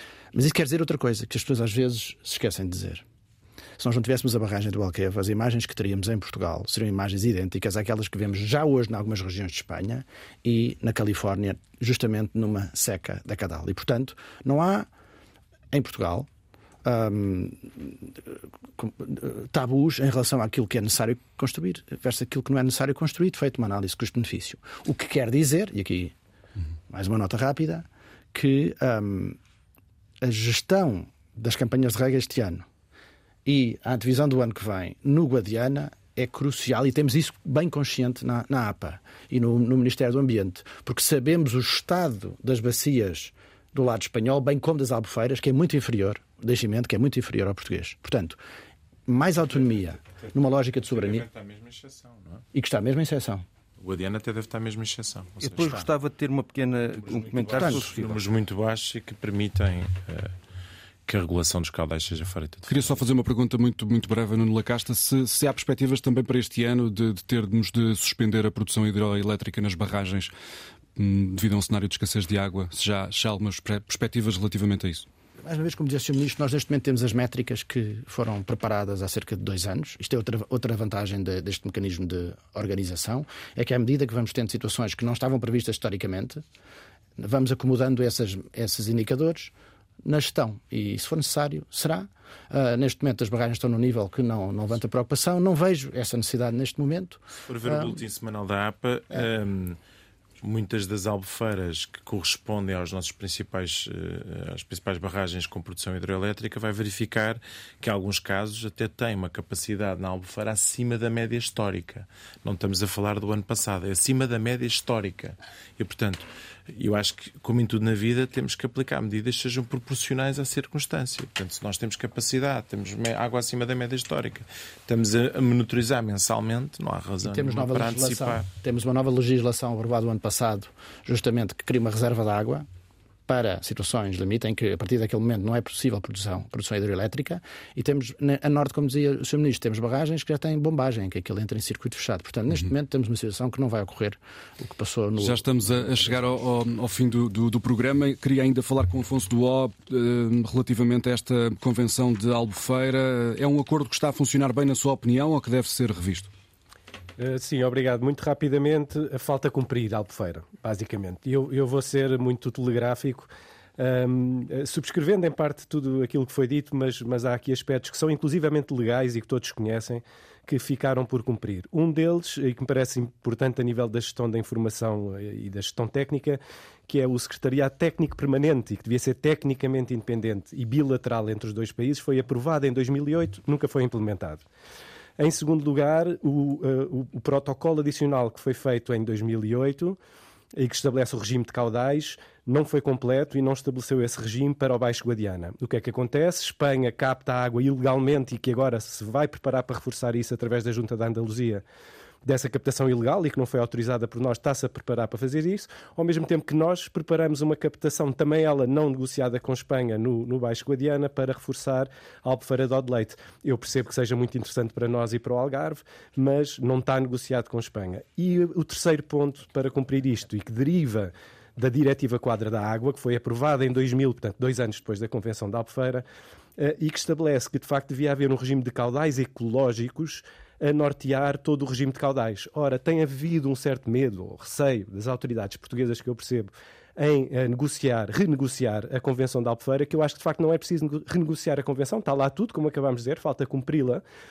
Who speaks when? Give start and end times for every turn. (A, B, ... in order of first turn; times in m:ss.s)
0:00.3-0:03.0 A
0:03.8-0:14.9 A
0:15.7-0:16.3 A
0:16.8-0:26.2 A
0:26.9-0:29.4 A
0:30.2-0:32.7 A
0:33.4-0:48.4 A
0:49.1-0:51.3 A
0:50.9-0:52.4 B
0:52.5-0:53.4 A
0:53.8-0:55.8 B
0:55.4-0:58.1 C
0:57.0-1:00.3 B
0:57.5-0:58.1 A
1:01.1-1:03.0 B
1:02.7-1:10.3 D
1:11.0-1:15.1 D
1:15.4-1:26.4 A
1:27.2-1:38.0 A
1:37.5-1:39.8 B
1:40.4-2:08.4 B
2:07.2-2:12.7 A
2:13.3-2:26.4 A
2:25.2-2:36.3 D
2:37.2-3:04.4 E
3:05.2-3:10.0 E
3:10.6-3:21.6 E
3:22.2-3:46.1 E
3:46.6-4:04.0 E